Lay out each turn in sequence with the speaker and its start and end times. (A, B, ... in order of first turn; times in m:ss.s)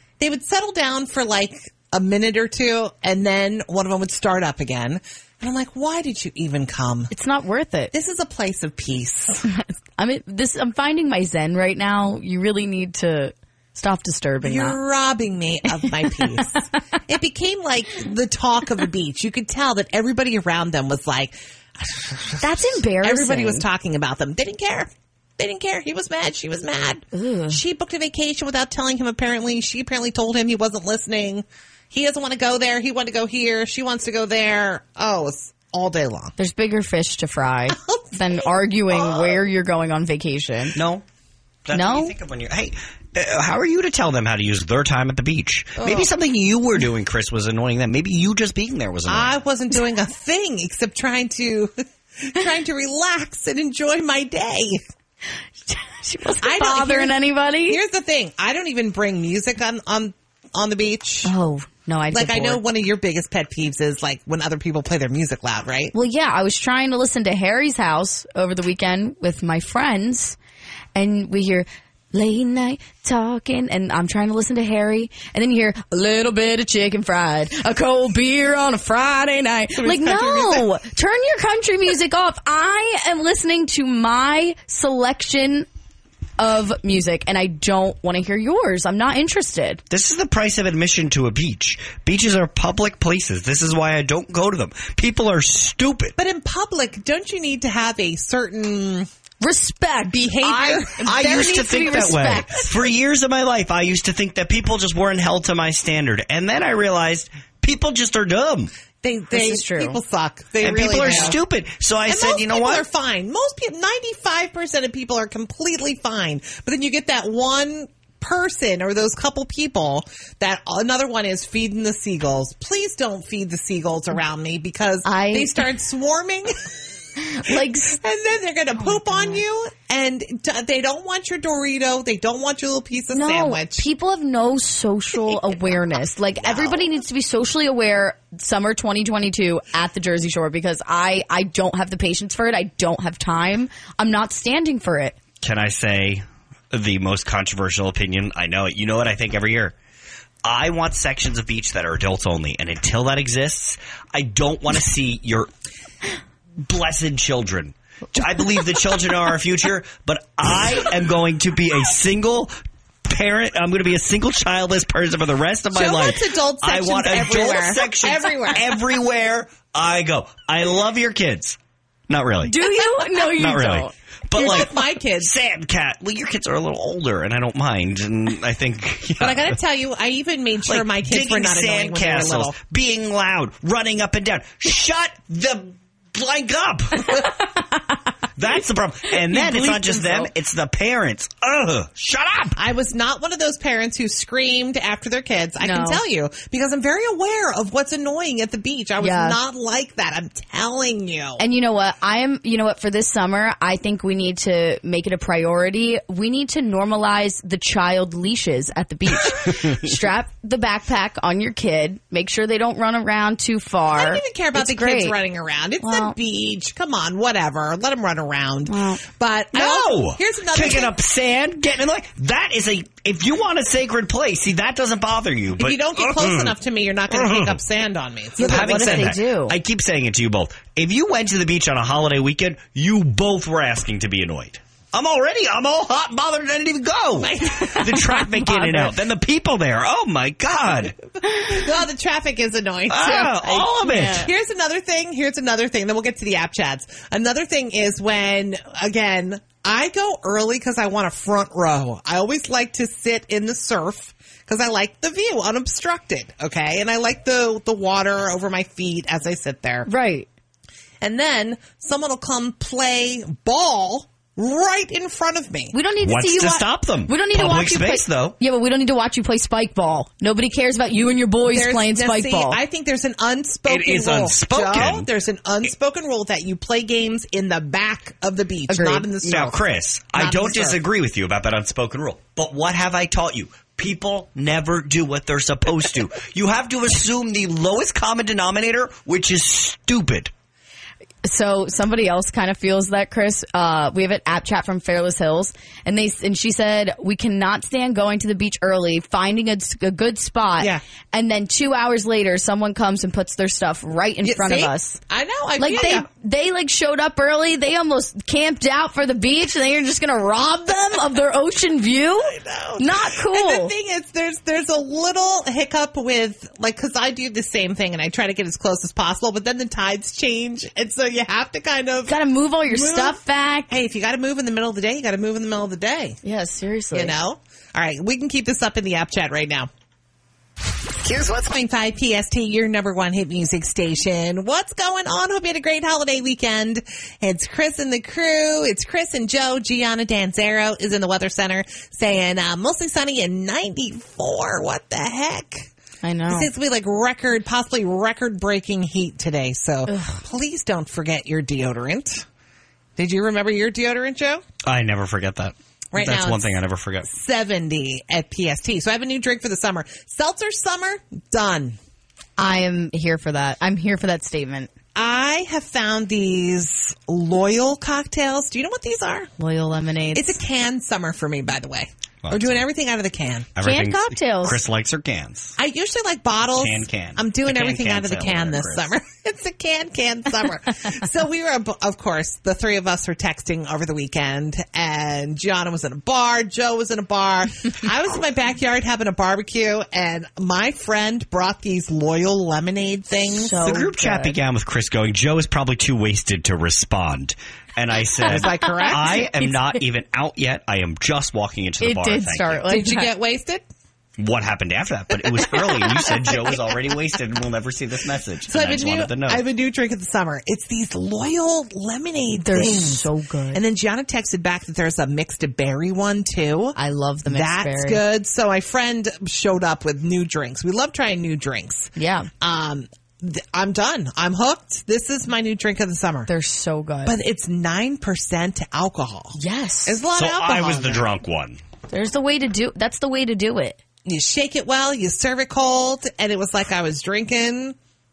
0:00.2-0:07.1 A
0:07.1-0:07.9 B
0:07.9-0:09.5 A
0:09.5-0:14.8 B
0:14.4-0:36.3 A
0:15.9-0:16.6 B
0:22.4-0:23.6 B
0:27.1-0:27.6 B
0:36.4-0:40.8 B
0:37.7-0:39.4 A
0:40.8-0:41.0 C
0:41.6-0:49.3 C
0:41.7-0:42.1 B
0:45.8-0:46.1 A
0:49.1-0:54.8 A
0:55.7-0:57.8 B
0:56.4-0:57.1 A
0:57.7-1:01.3 A
1:01.2-1:02.6 B
1:02.1-1:05.9 A
1:05.9-1:10.4 B
1:10.9-1:25.7 B
1:19.8-1:20.6 A
1:26.4-1:29.8 B
1:29.9-1:36.2 C
1:36.2-1:39.1 A
1:39.4-1:40.3 B
1:40.1-1:42.1 A
1:40.4-1:48.7 C
1:41.0-1:42.8 B
1:49.0-1:51.4 A
1:49.3-1:50.0 B
1:50.6-1:52.8 C
1:52.0-2:06.7 A
2:05.0-2:05.7 B
2:07.2-2:08.0 B
2:07.4-2:13.8 A
2:08.8-2:09.4 B
2:13.1-2:25.2 B
2:16.4-2:16.8 C
2:25.4-2:29.7 C
2:30.4-2:35.5 C
2:36.6-2:42.5 C
2:43.0-2:51.6 C
2:45.7-2:48.8 A
2:52.1-2:52.6 C
2:52.4-2:53.9 B
2:53.2-2:59.6 C
2:54.3-2:55.3 A
2:59.2-3:02.6 A
3:00.7-3:07.4 C
3:08.4-3:12.6 C
3:09.1-3:10.3 B
3:12.6-3:21.4 A
3:15.6-3:16.0 B
3:19.0-3:19.4 B
3:21.4-3:35.2 B
3:33.9-3:40.9 A
3:35.8-3:36.2 B
3:38.7-3:39.0 B
3:39.5-3:46.5 C
3:45.6-3:49.1 A
3:47.1-3:47.6 C
3:48.4-3:49.6 B
3:48.4-4:01.0 C
3:57.2-3:58.2 A
3:57.9-3:58.9 B
4:01.3-4:19.9 A
4:02.9-4:04.3 C
4:03.8-4:04.3 B
4:19.9-4:20.3 B
4:21.0-4:25.8 A
4:25.7-4:32.6 B
4:26.0-4:28.4 C
4:31.5-4:39.6 A
4:33.7-4:35.1 C
4:38.7-4:39.2 B
4:39.2-4:50.3 C
4:40.2-4:40.7 A
4:51.2-5:05.0 B
5:04.2-5:06.1 A
5:05.6-5:13.7 B
5:12.2-5:23.2 A
5:22.1-5:23.8 B
5:23.7-5:26.2 A
5:26.2-5:27.1 B
5:26.9-5:29.7 A
5:31.0-5:45.7 A
5:46.0-5:46.5 B
5:46.3-5:52.2 A
5:49.9-5:50.2 B
5:53.0-5:54.4 A
5:54.6-5:57.1 C
5:55.9-6:01.8 A
6:02.4-6:04.7 B
6:05.0-6:09.3 A
6:09.4-6:10.4 B
6:10.1-6:13.5 A
6:12.2-6:12.6 C
6:13.6-6:15.6 C
6:13.6-6:14.6 B
6:15.6-6:33.7 A
6:16.6-6:18.9 C
6:33.3-6:34.4 B
6:33.6-6:42.6 C
6:38.3-6:39.2 A
6:38.4-6:39.7 B
6:41.8-6:43.1 B
6:42.7-6:43.6 A
6:44.2-6:49.4 C
6:45.7-6:46.4 A
6:48.5-7:06.3 A
6:52.4-6:53.6 B
6:56.8-6:58.0 B
7:02.0-7:02.3 B
7:06.3-7:07.2 B
7:07.0-7:11.1 A
7:09.4-7:10.0 B
7:10.2-7:11.6 C
7:11.9-7:13.8 B
7:14.0-7:17.8 A